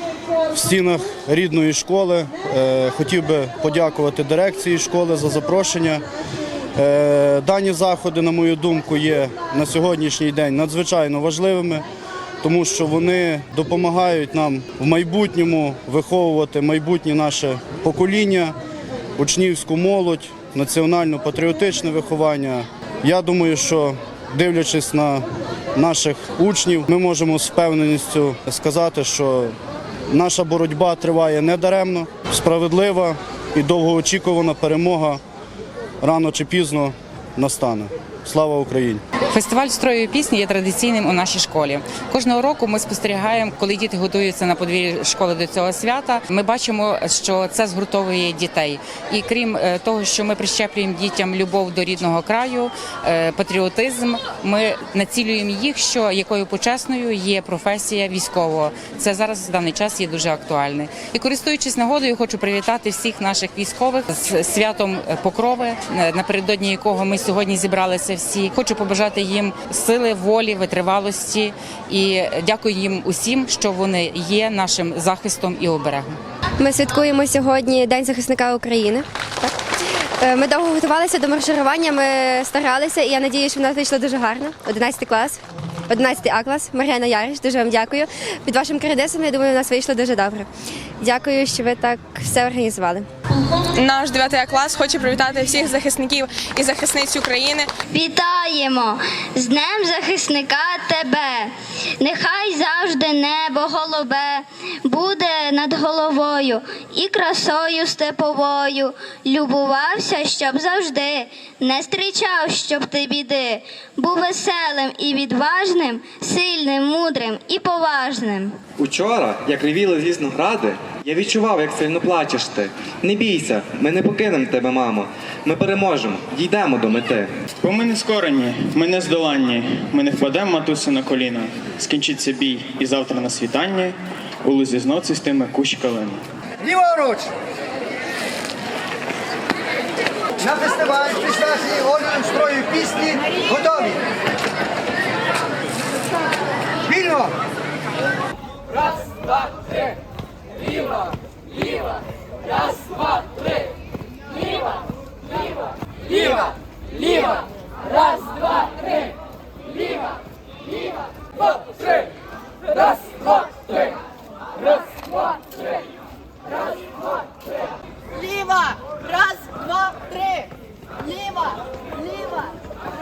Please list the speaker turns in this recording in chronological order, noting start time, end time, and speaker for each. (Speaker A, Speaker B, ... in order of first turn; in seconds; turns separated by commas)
Speaker A: 0.5-6.0, Speaker A: 6.8-11.8, Speaker A: 12.4-18.5, Speaker A: 19.2-25.2, Speaker A: 25.8-29.5, Speaker A: 30.1-35.2, Speaker A: 36.0-39.0, Speaker B: 39.3-76.2, Speaker C: 76.6-79.5, Speaker C: 80.2-90.5, Speaker C: 91.0-93.1, Speaker D: 93.7-97.7, Speaker E: 97.9-118.6, Speaker F: 118.8-127.3, Speaker G: 127.6-136.2, Speaker H: 136.8-137.2, Speaker H: 140.5-144.0